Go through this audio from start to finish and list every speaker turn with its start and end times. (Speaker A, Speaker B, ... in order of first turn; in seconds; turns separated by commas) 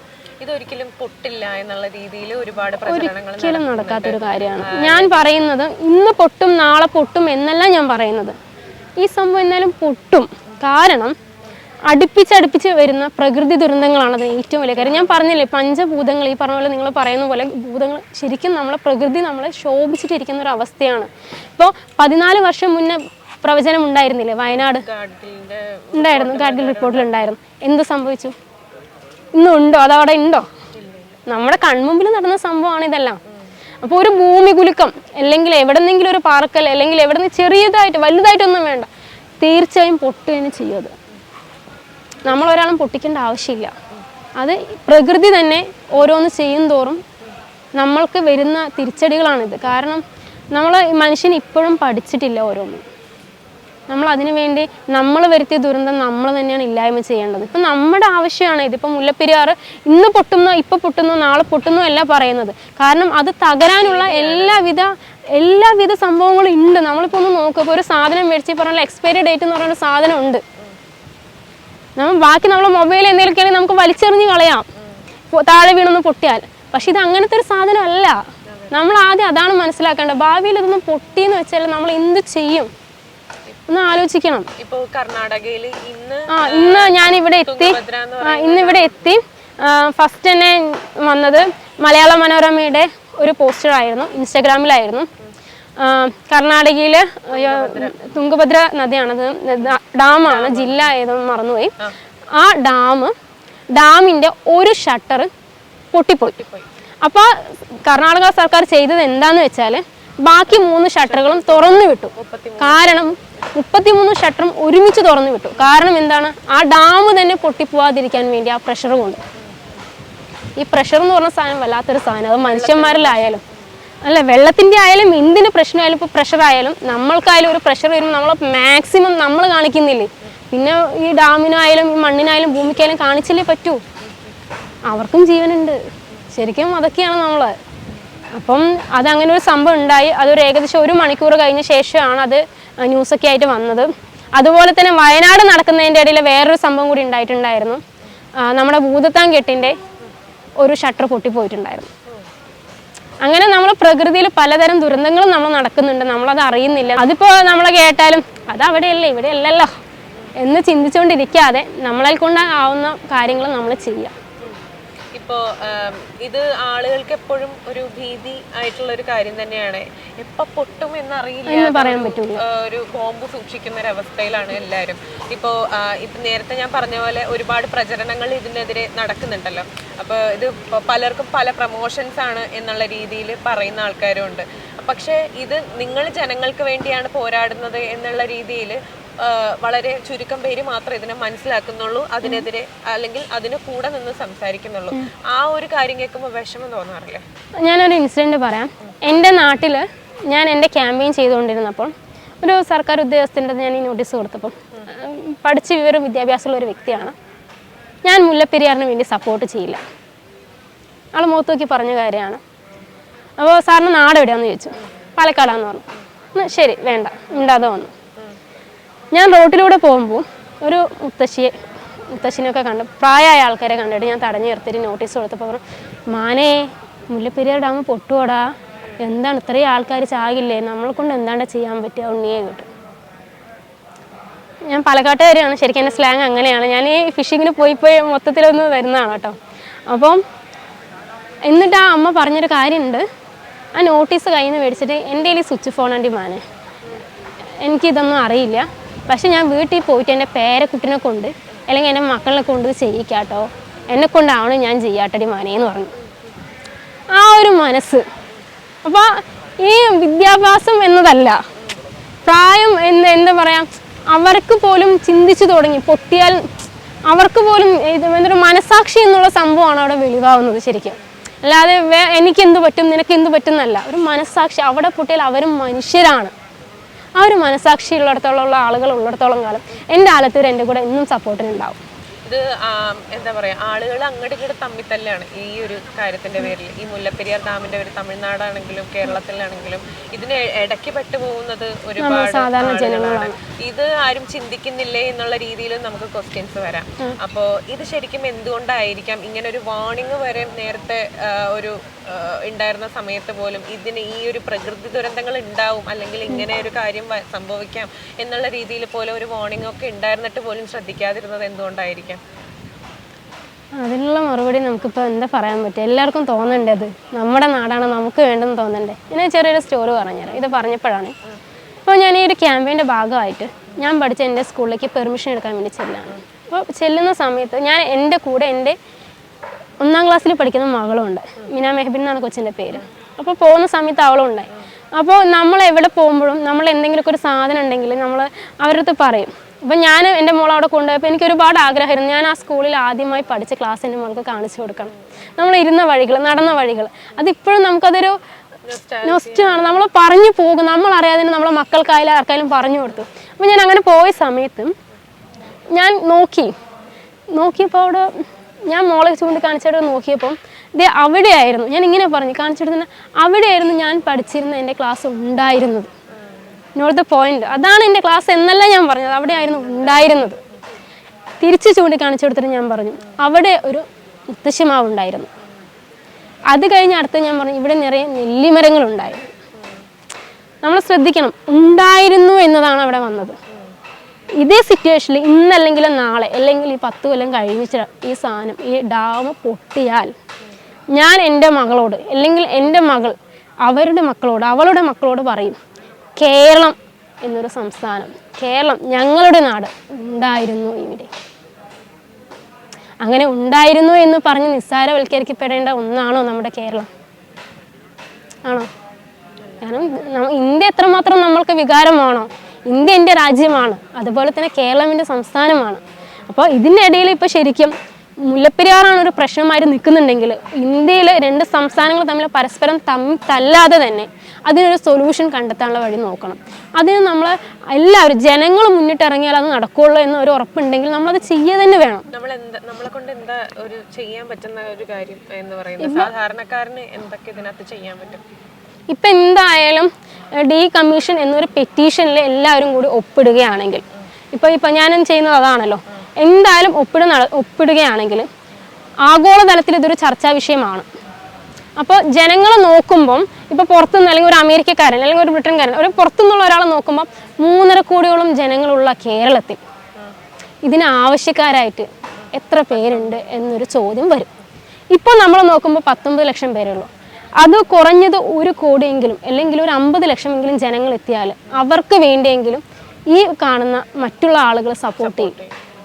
Speaker A: 0.4-5.3, Speaker B: 2.8-8.3, Speaker B: 9.0-11.1, Speaker B: 11.9-24.9, Speaker A: 14.7-15.2, Speaker A: 24.5-27.2, Speaker B: 25.9-28.3, Speaker B: 29.3-30.5, Speaker A: 30.8-31.2, Speaker B: 31.3-33.2, Speaker B: 33.8-38.9, Speaker B: 39.4-40.9, Speaker B: 42.2-43.7, Speaker B: 44.4-47.0, Speaker B: 47.8-52.8, Speaker B: 53.9-70.4, Speaker A: 63.8-64.7, Speaker B: 72.0-74.7, Speaker B: 75.3-82.7, Speaker A: 78.5-78.7, Speaker B: 83.7-84.5, Speaker A: 84.6-89.0, Speaker B: 86.3-95.1, Speaker B: 95.8-101.7, Speaker A: 97.3-98.0, Speaker A: 100.2-100.9, Speaker B: 102.3-103.1, Speaker B: 103.7-105.3, Speaker B: 105.9-106.4, Speaker A: 106.2-106.7, Speaker B: 107.0-119.2, Speaker A: 110.5-113.2, Speaker B: 120.6-123.4, Speaker A: 122.4-123.4, Speaker B: 124.0-133.8, Speaker B: 134.9-135.8, Speaker B: 136.3-137.6, Speaker B: 138.3-147.8, Speaker B: 148.4-149.8, Speaker B: 150.6-151.9, Speaker B: 153.2-159.8, Speaker B: 160.3-164.1, Speaker A: 165.1-197.2, Speaker B: 171.5-172.4, Speaker B: 197.6-207.2, Speaker B: 208.0-209.8, Speaker B: 211.1-212.4, Speaker B: 213.4-217.9, Speaker B: 219.1-221.6, Speaker B: 222.1-232.7, Speaker B: 234.6-239.4, Speaker B: 239.9-240.2, Speaker B: 241.5-243.0, Speaker B: 243.7-246.4, Speaker B: 247.6-255.9, Speaker B: 257.1-258.0, Speaker B: 258.8-261.4, Speaker B: 262.2-276.3, Speaker B: 277.2-281.8, Speaker A: 282.2-312.2, Speaker B: 292.0-293.4, Speaker B: 313.8-321.1, Speaker B: 321.8-328.8, Speaker B: 329.8-348.2, Speaker A: 348.6-349.8, Speaker B: 349.0-354.7, Speaker B: 355.7-356.5, Speaker B: 357.3-365.9, Speaker B: 366.8-370.4, Speaker A: 369.5-370.2, Speaker B: 371.4-375.3, Speaker B: 376.5-379.3, Speaker B: 380.6-383.4, Speaker B: 384.4-390.1, Speaker B: 390.9-395.6, Speaker B: 396.1-401.1, Speaker B: 403.0-406.9, Speaker B: 409.6-432.1, Speaker A: 432.1-438.2, Speaker B: 435.8-436.1, Speaker B: 438.9-448.3, Speaker B: 449.0-450.8, Speaker B: 451.8-459.6, Speaker B: 460.6-464.3, Speaker A: 462.7-463.2, Speaker B: 464.9-466.9, Speaker B: 467.4-475.4, Speaker A: 475.0-475.6